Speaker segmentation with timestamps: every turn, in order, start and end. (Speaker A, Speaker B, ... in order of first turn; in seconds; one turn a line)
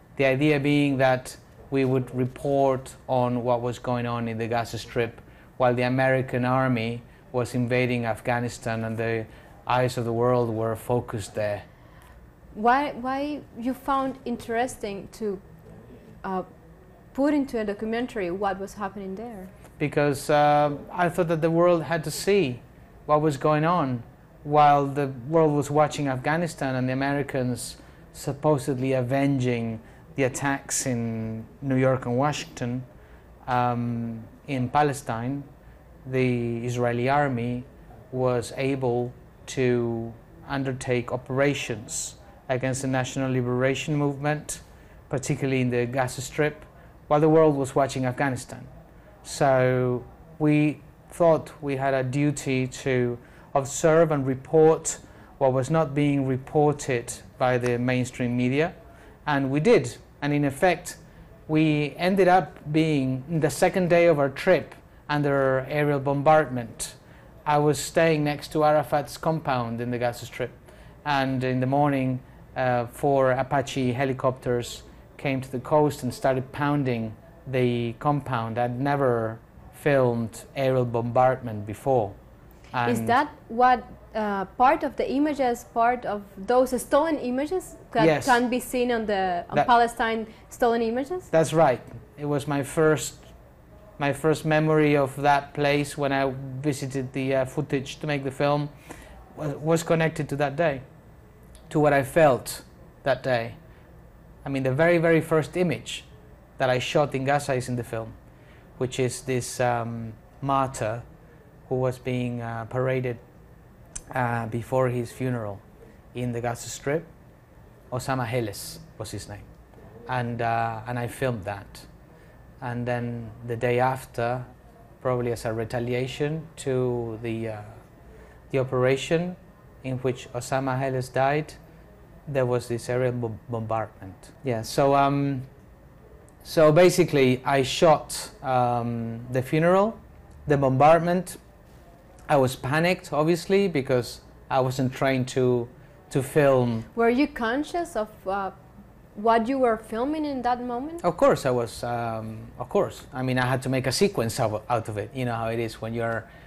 Speaker A: 0.2-11.7
Speaker B: 12.5-15.4
Speaker B: 17.1-19.5
Speaker A: 19.8-32.9
Speaker A: 33.5-35.5
Speaker A: 36.0-48.7
Speaker A: 49.2-58.7
Speaker A: 59.3-82.2
Speaker A: 82.7-83.2
Speaker B: 82.8-91.3
Speaker A: 88.0-88.4
Speaker A: 91.3-93.2
Speaker A: 94.0-98.7
Speaker A: 99.3-100.8
Speaker A: 101.7-103.6
Speaker A: 104.4-108.2
Speaker A: 108.8-111.0
Speaker A: 111.7-113.2
Speaker A: 114.1-115.6
Speaker A: 116.1-117.1
Speaker A: 117.9-119.5
Speaker A: 120.1-121.9
Speaker A: 122.6-124.5
Speaker A: 125.0-127.8
Speaker A: 128.5-131.6
Speaker A: 132.3-135.5
Speaker A: 136.4-141.4
Speaker A: 142.3-146.9
Speaker B: 146.9-148.6
Speaker B: 149.2-151.0
Speaker A: 151.0-156.3